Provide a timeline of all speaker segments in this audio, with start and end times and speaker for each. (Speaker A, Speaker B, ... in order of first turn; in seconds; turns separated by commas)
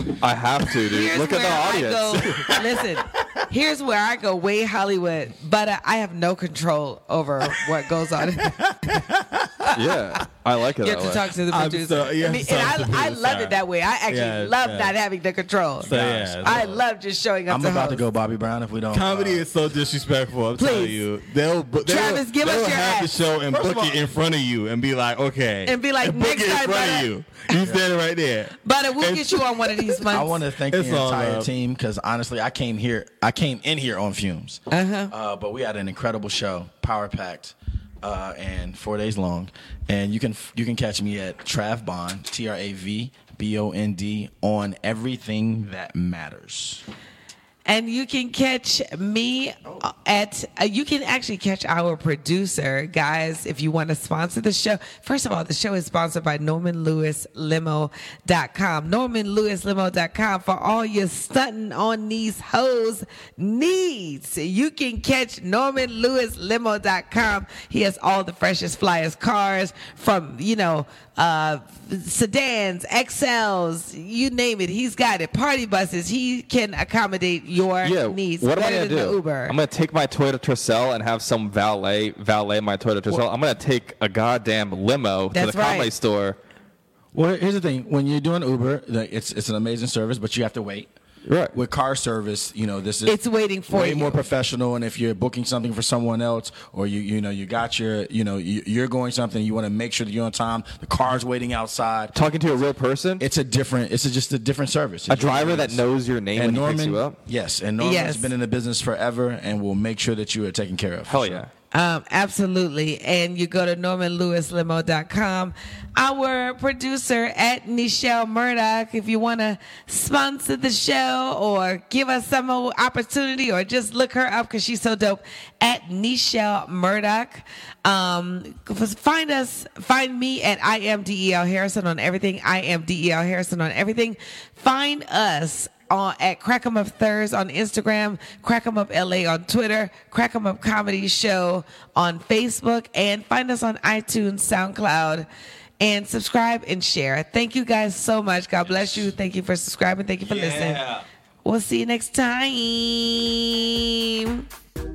Speaker A: 0.2-2.2, Speaker B: 0.8-8.8, Speaker C: 2.1-2.8, Speaker A: 9.7-11.3, Speaker B: 10.8-18.0, Speaker C: 11.5-13.6, Speaker C: 14.1-14.9, Speaker C: 15.8-16.8, Speaker D: 15.9-16.7, Speaker D: 17.5-19.5, Speaker C: 18.9-29.4, Speaker B: 20.6-21.1, Speaker B: 21.8-23.2, Speaker D: 23.5-24.1, Speaker B: 25.6-27.1, Speaker D: 27.6-27.8, Speaker B: 28.6-30.4, Speaker D: 30.1-46.8, Speaker C: 30.7-31.5, Speaker B: 34.7-35.1, Speaker B: 47.7-79.6, Speaker A: 77.8-86.4, Speaker B: 85.3-85.9, Speaker D: 87.1-90.9, Speaker A: 91.2-91.5, Speaker D: 91.5-102.2, Speaker B: 93.0-94.3, Speaker A: 102.1-103.3, Speaker D: 103.2-111.4, Speaker A: 105.1-107.2, Speaker B: 107.8-108.3, Speaker A: 111.1-111.5, Speaker B: 111.7-145.3, Speaker B: 145.8-150.9, Speaker C: 148.6-149.1, Speaker C: 150.2-151.0, Speaker B: 151.4-154.4